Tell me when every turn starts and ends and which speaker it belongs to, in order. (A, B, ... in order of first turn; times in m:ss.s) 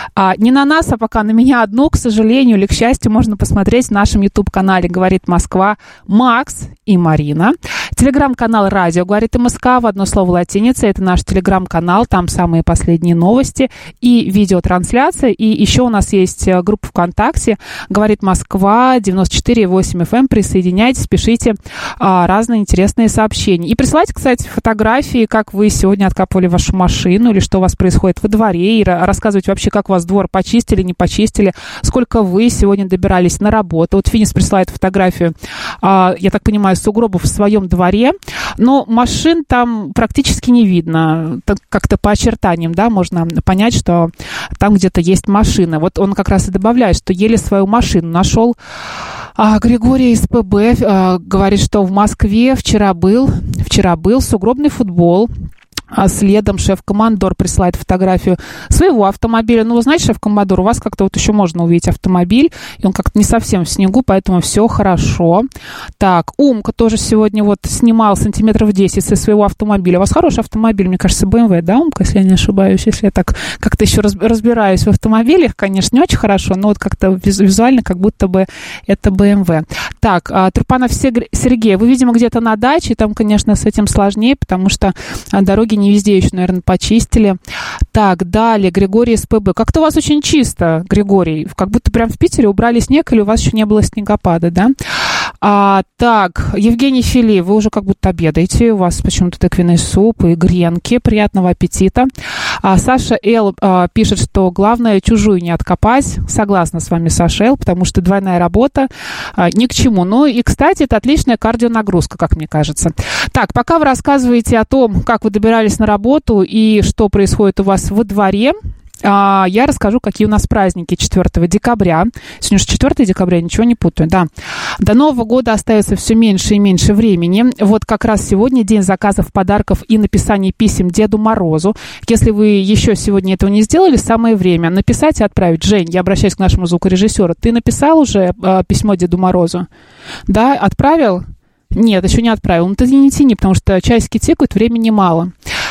0:00.2-0:48.6 A
0:49.4-0:55.3 A
0:55.9-1:05.4 A
1:06.0-1:27.4 A
1:27.9-1:34.7 A
1:35.4-1:42.1 A
1:42.6-2:04.3 A
2:04.8-2:19.7 A
2:20.3-2:25.3 A